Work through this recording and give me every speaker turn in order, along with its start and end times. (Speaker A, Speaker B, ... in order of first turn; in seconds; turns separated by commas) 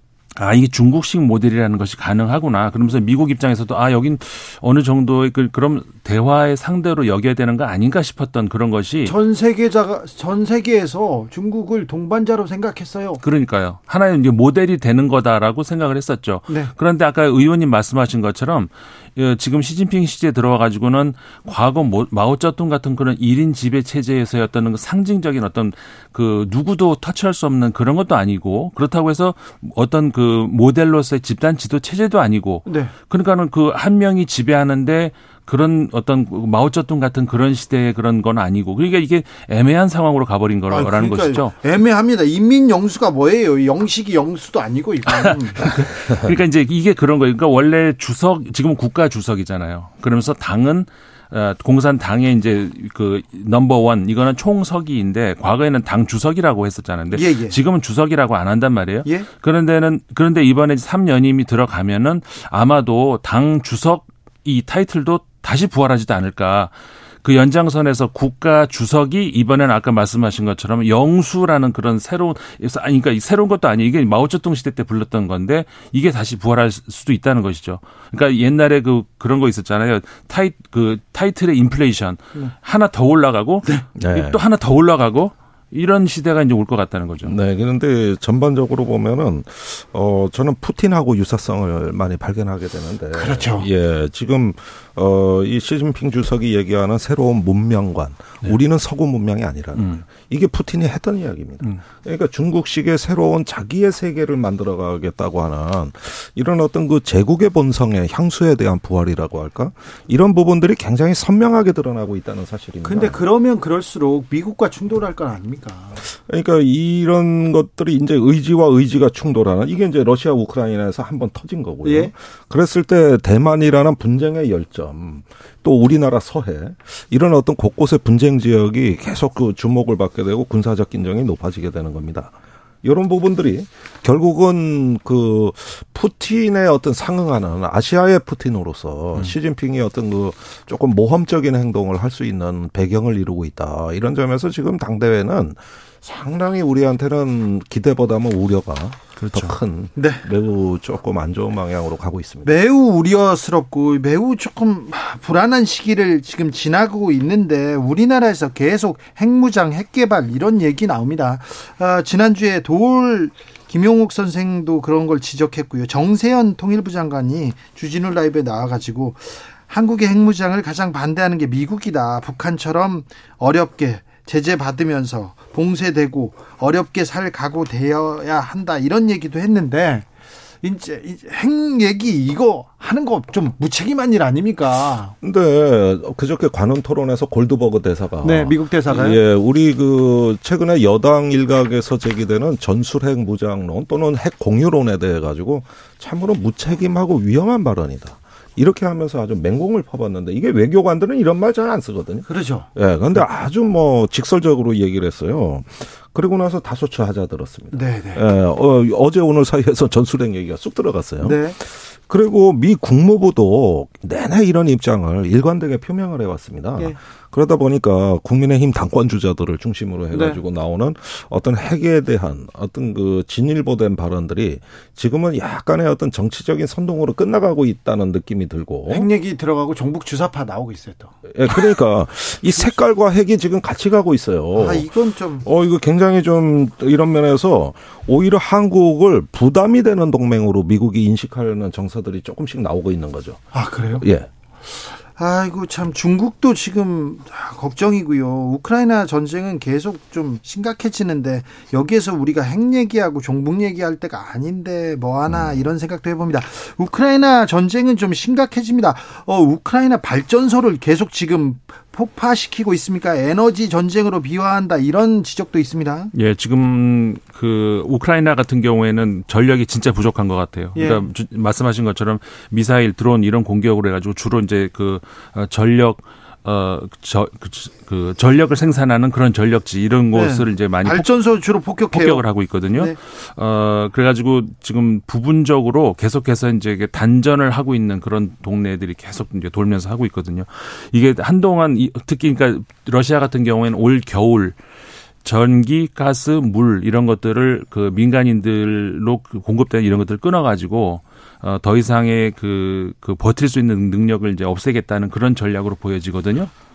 Speaker A: 0.3-9.1, Speaker B: 9.0-13.2, Speaker A: 13.2-41.5, Speaker B: 16.5-16.7, Speaker B: 32.6-32.9, Speaker B: 40.7-45.7, Speaker A: 45.0-66.7, Speaker B: 57.1-57.6, Speaker A: 67.2-87.3, Speaker C: 84.0-84.4, Speaker C: 87.2-113.2, Speaker B: 93.1-93.7, Speaker A: 99.8-100.0, Speaker B: 112.8-116.0, Speaker C: 116.0-132.3, Speaker B: 121.8-122.1, Speaker C: 132.8-152.6, Speaker A: 149.2-149.6, Speaker B: 149.9-150.3, Speaker B: 152.4-180.1, Speaker B: 180.6-185.1, Speaker C: 185.2-229.1, Speaker B: 188.2-189.2, Speaker B: 202.2-202.7, Speaker B: 207.7-208.3, Speaker B: 211.2-211.6, Speaker B: 220.1-220.4, Speaker B: 228.9-231.6, Speaker C: 231.3-234.9, Speaker B: 234.5-235.5, Speaker C: 235.4-243.4, Speaker B: 243.5-244.1, Speaker C: 244.0-244.3, Speaker B: 244.7-266.1, Speaker A: 266.1-281.1, Speaker B: 270.7-271.1, Speaker B: 280.1-283.0, Speaker A: 281.9-294.6, Speaker A: 295.2-306.5